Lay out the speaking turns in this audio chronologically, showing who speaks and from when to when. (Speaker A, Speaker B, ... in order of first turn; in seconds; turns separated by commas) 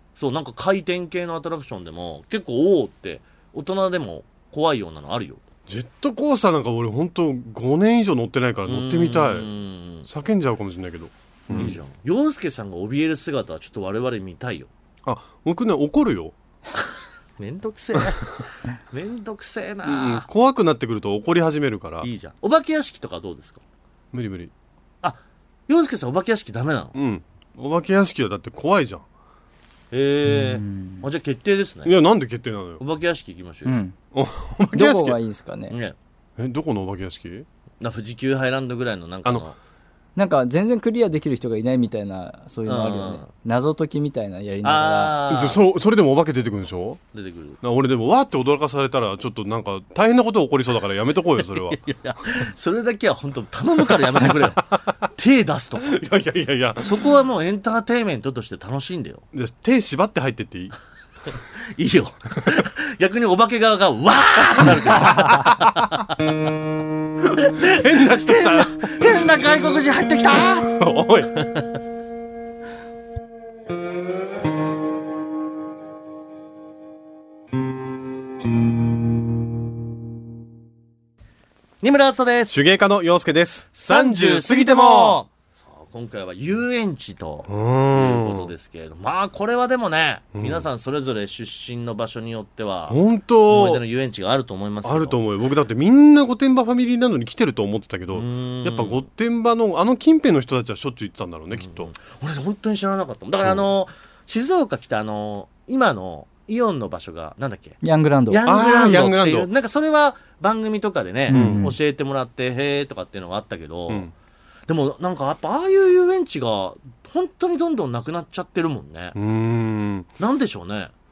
Speaker A: 0.2-5.4, Speaker B: 5.7-9.5, Speaker A: 8.7-10.1, Speaker B: 10.1-11.8, Speaker A: 11.5-14.7, Speaker B: 15.1-16.3, Speaker A: 17.4-20.3, Speaker B: 19.9-22.1, Speaker A: 22.0-23.6, Speaker B: 24.1-24.5, Speaker A: 25.0-26.9, Speaker B: 26.9-29.0, Speaker A: 29.9-31.9, Speaker C: 30.3-31.0, Speaker B: 31.9-32.8, Speaker A: 32.8-33.8, Speaker C: 33.7-34.0, Speaker B: 34.1-35.2, Speaker C: 34.7-35.8, Speaker A: 35.7-36.0, Speaker B: 36.4-37.5, Speaker A: 37.8-39.5, Speaker C: 40.2-45.2, Speaker A: 42.6-43.3, Speaker A: 44.6-45.6, Speaker B: 45.3-47.0, Speaker A: 47.1-47.6, Speaker B: 47.6-51.8, Speaker A: 51.6-56.0, Speaker B: 55.9-57.1, Speaker A: 56.8-59.2, Speaker B: 59.3-60.8, Speaker A: 61.3-66.1, Speaker B: 64.7-65.7, Speaker A: 67.3-71.7, Speaker B: 67.6-68.8, Speaker B: 70.6-71.3, Speaker A: 81.8-82.6, Speaker B: 82.5-85.2, Speaker A: 83.8-95.2, Speaker B: 87.5-88.5, Speaker B: 90.4-90.7, Speaker B: 92.9-93.8, Speaker B: 94.8-101.9, Speaker A: 98.1-99.0, Speaker A: 101.5-107.8, Speaker C: 107.8-108.5, Speaker A: 108.3-114.1, Speaker B: 108.5-109.5, Speaker C: 111.3-111.8, Speaker B: 111.3-111.7, Speaker A: 114.7-119.2, Speaker B: 119.2-120.1, Speaker A: 120.2-120.9